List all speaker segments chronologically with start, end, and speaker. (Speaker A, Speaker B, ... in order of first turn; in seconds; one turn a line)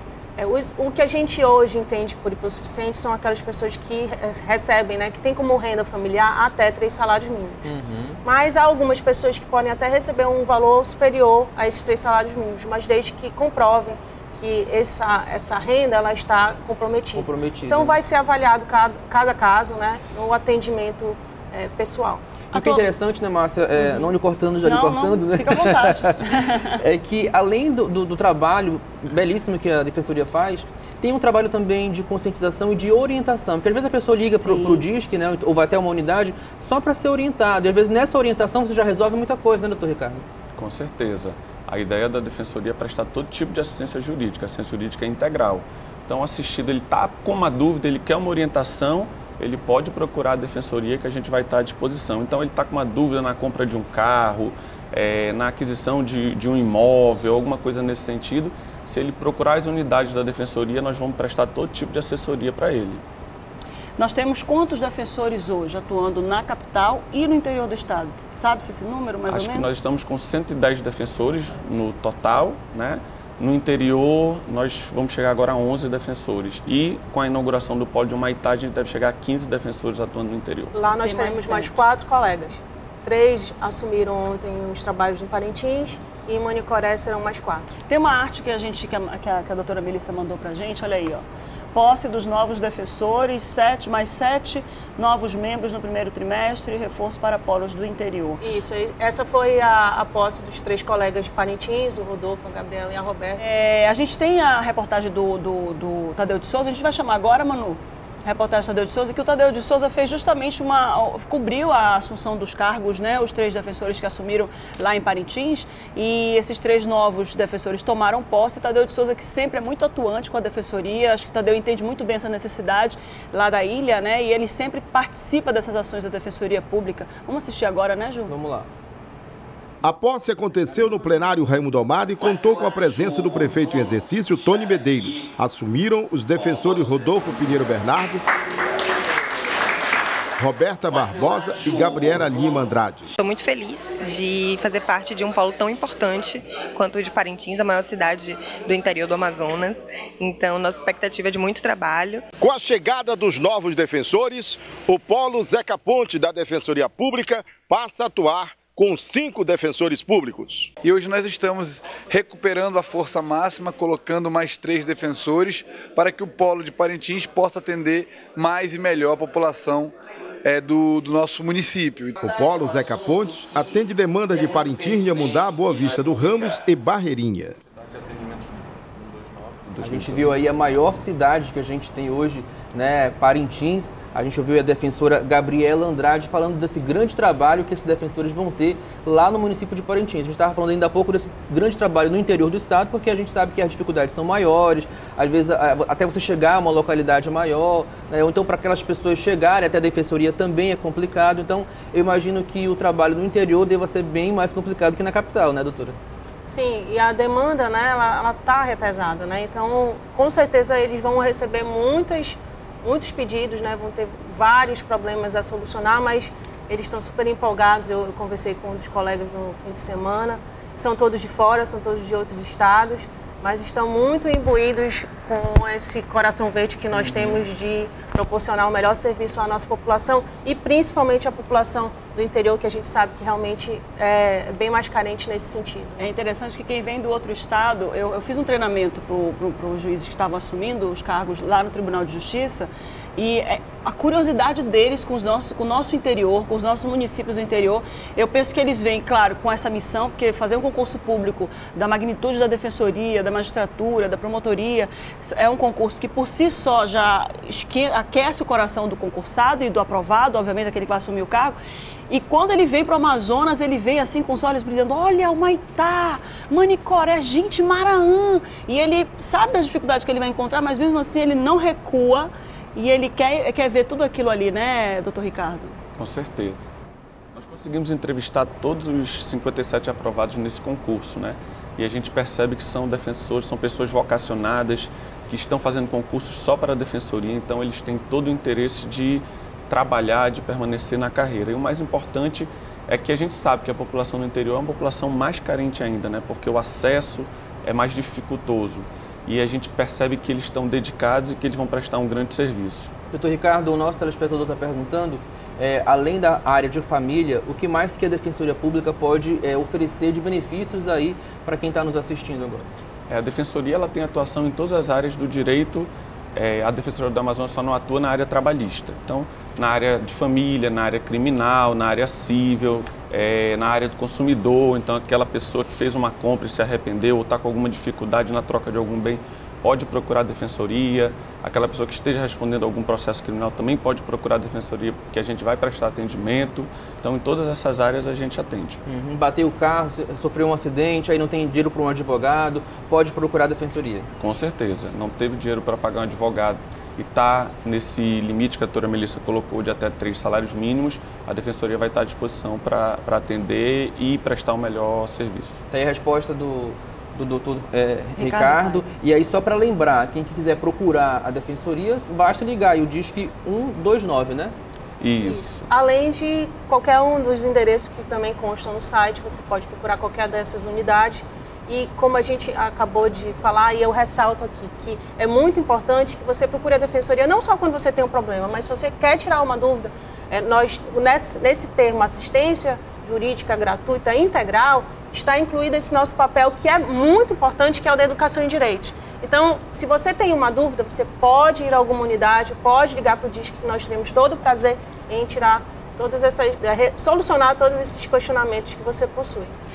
Speaker A: 0.4-7.7
Speaker B: 7.6-8.2
Speaker A: 8.2-22.2
Speaker B: 17.1-18.0
Speaker C: 22.5-22.9
Speaker B: 22.5-26.2
Speaker C: 23.8-26.7
Speaker B: 26.8-40.2
Speaker C: 34.4-34.8
Speaker D: 40.6-63.0
Speaker C: 64.0-70.0
Speaker D: 69.3-80.8
Speaker A: 80.7-87.7
Speaker C: 80.9-81.8
Speaker C: 87.9-98.4
Speaker A: 98.4-103.4
Speaker C: 103.4-128.3
Speaker B: 128.3-128.7
Speaker E: 129.8-138.2
Speaker E: 140.4-143.1
Speaker F: 143.2-152.2
Speaker E: 152.4-160.7
Speaker G: 160.8-172.2
Speaker E: 172.2-177.6
Speaker D: 177.8-180.4
Speaker B: 179.8-206.0
Speaker A: 206.4-236.1
Speaker B: 226.9-227.4
Speaker C: 236.0-261.6
Speaker C: 262.1-275.8
Speaker D: 276.0-276.6
Speaker D: 277.3-302.9
Speaker B: 303.1-312.7
Speaker D: 313.1-338.8
Speaker B: 338.9-344.1
Speaker D: 344.2-355.6
Speaker B: 355.7-364.6
Speaker C: 358.2-358.8
Speaker D: 365.0-365.7
Speaker A: 365.2-399.6